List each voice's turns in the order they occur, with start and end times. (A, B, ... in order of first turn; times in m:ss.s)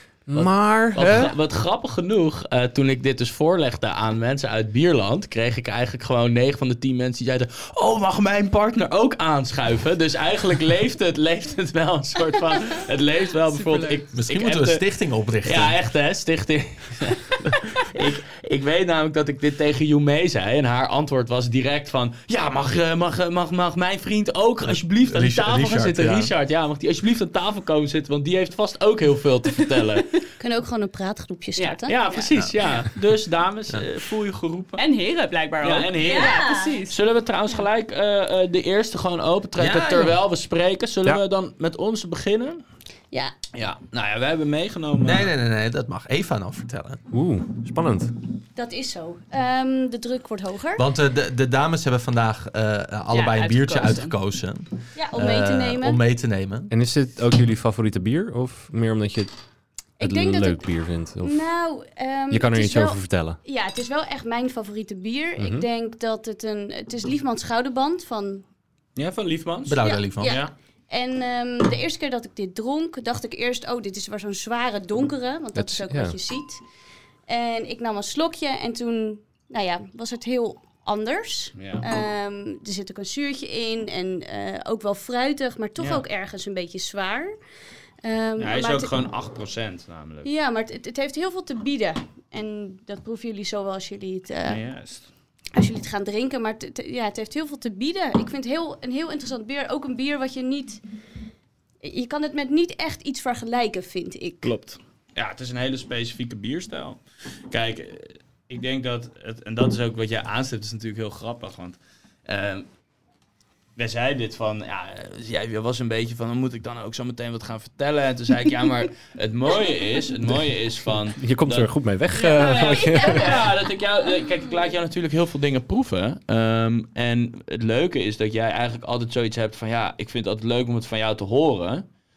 0:00.3-0:01.3 A
0:00.3-0:14.8 B
0:13.5-0:14.0 C
0:14.1-0:15.8 D
0:15.4-0:30.2 B
0:25.1-0:26.3 D
0:30.4-0:32.0 E
0:31.6-0:32.9 C
0:31.9-0:34.8 B
0:34.8-0:37.0 C
0:35.6-0:42.6 B
0:36.0-0:36.8 E
0:39.6-0:40.2 D
0:43.5-0:45.3 B
0:45.0-0:47.0 D
0:47.1-0:48.1 A
0:48.6-0:50.8 E
0:50.8-0:56.7 D
0:53.1-0:54.1 C
0:54.9-0:56.0 E
0:56.7-0:59.3 A
1:00.0-1:08.4 E
1:00.0-1:01.4 A
1:02.3-1:03.4 A
1:05.4-1:05.6 A
1:09.0-1:10.5 B
1:09.7-1:10.4 D
1:09.8-1:16.6 E
1:15.6-1:16.1 A
1:17.3-1:27.3 E
1:21.6-1:21.8 B
1:28.0-1:29.0 E
1:28.4-1:30.3 B
1:30.2-1:34.6 E
1:34.5-1:35.1 B
1:35.5-1:40.8 E
1:41.8-1:44.5 E
1:44.4-1:52.7 B
1:53.8-2:01.7 B
2:01.2-2:03.4 A
2:02.2-2:03.3 C
2:02.4-2:11.8 B